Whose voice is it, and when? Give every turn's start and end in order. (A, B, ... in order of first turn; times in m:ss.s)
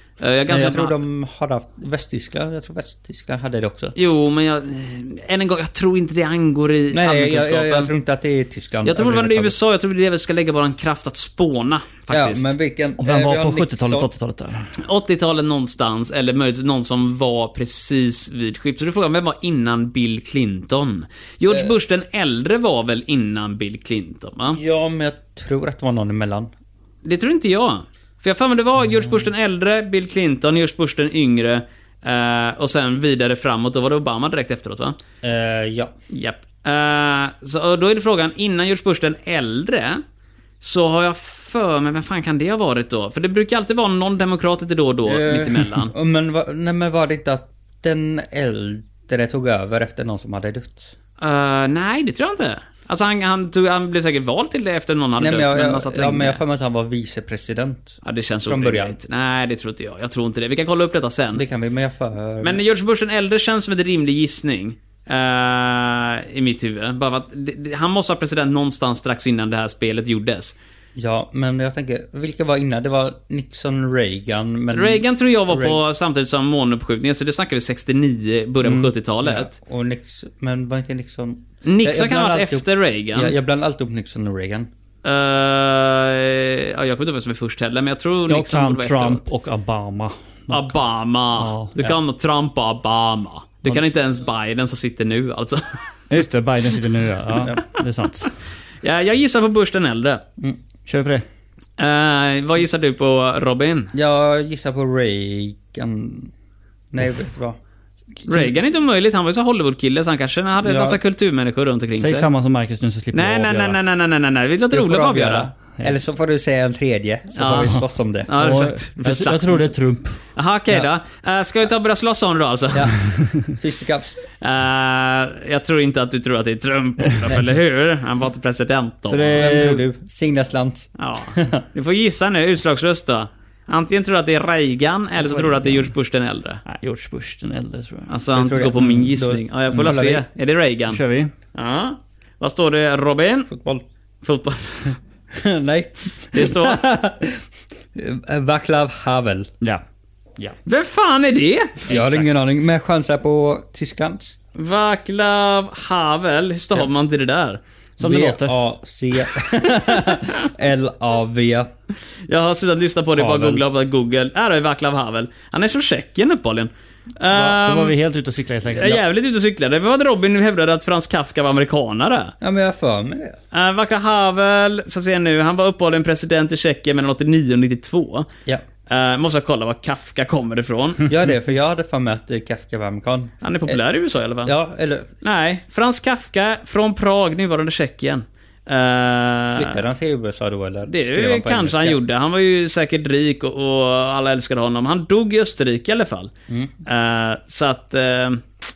0:00.2-0:01.0 A
0:00.5-0:03.9 B
0:04.0-0:07.9 A
0:06.9-0:09.6 B
0:08.8-0:12.5 A
0:12.1-0:14.1 B
0:13.0-0:14.7 C
0:14.8-0:24.6 A
0:24.5-0:26.5 B
0:27.0-0:35.0 A
0:35.2-0:35.9 B
0:36.1-0:40.0 A
0:40.6-0:45.9 A
0:45.1-0:51.0 B
0:51.2-0:56.4 A
0:55.2-0:59.0 B
0:58.0-1:01.4 A
1:01.3-1:02.6 B
1:02.4-1:10.6 A
1:11.0-1:15.8 B
1:14.7-1:19.5 A
1:18.7-1:24.7 B
1:21.6-1:23.4 A
1:25.0-1:29.2 A
1:28.3-1:30.8 C
1:30.5-1:35.8 A
1:31.4-1:31.7 C
1:36.1-1:38.3 C
1:38.8-1:40.2 A
1:40.9-1:41.2 C
1:41.8-1:43.9 A
1:43.9-1:46.3 B
1:46.9-1:47.6 B
1:48.2-1:48.6 B
1:48.3-1:52.3 A
1:50.6-1:51.0 B
1:52.0-1:53.8 C
1:53.1-1:55.5 A
1:54.7-1:58.3 B
1:57.4-1:59.7 A
1:58.4-2:00.2 C
2:00.4-2:03.0 A
2:03.1-2:03.5 C
2:03.5-2:04.3 B
2:04.4-2:09.4 A
2:09.1-2:09.8 C
2:09.3-2:11.6 B
2:11.0-2:16.6 A
2:15.2-2:15.9 C
2:16.6-2:18.1 C
2:18.1-2:21.0 A
2:18.3-2:20.2 B
2:20.9-2:21.3 C
2:21.5-2:23.5 A
2:23.5-2:23.8 B
2:24.2-2:25.0 A
2:25.3-2:29.5 B
2:26.3-2:26.8 A
2:30.7-2:31.9 A
2:31.9-2:34.3 B
2:31.9-2:32.3 C
2:34.6-2:37.6 A
2:38.0-2:38.6 C
2:38.0-2:41.7 B
2:42.3-2:48.0 A
2:43.2-2:43.6 B
2:47.5-2:49.0 C
2:48.7-2:52.3 A
2:52.4-2:53.4 B
2:53.5-2:58.3 A
2:58.9-3:01.1 A
3:01.1-3:03.8 B
3:03.4-3:04.5 A
3:04.4-3:05.1 B
3:05.2-3:09.8 A
3:09.5-3:12.0 B
3:10.9-3:16.3 A
3:16.8-3:18.5 A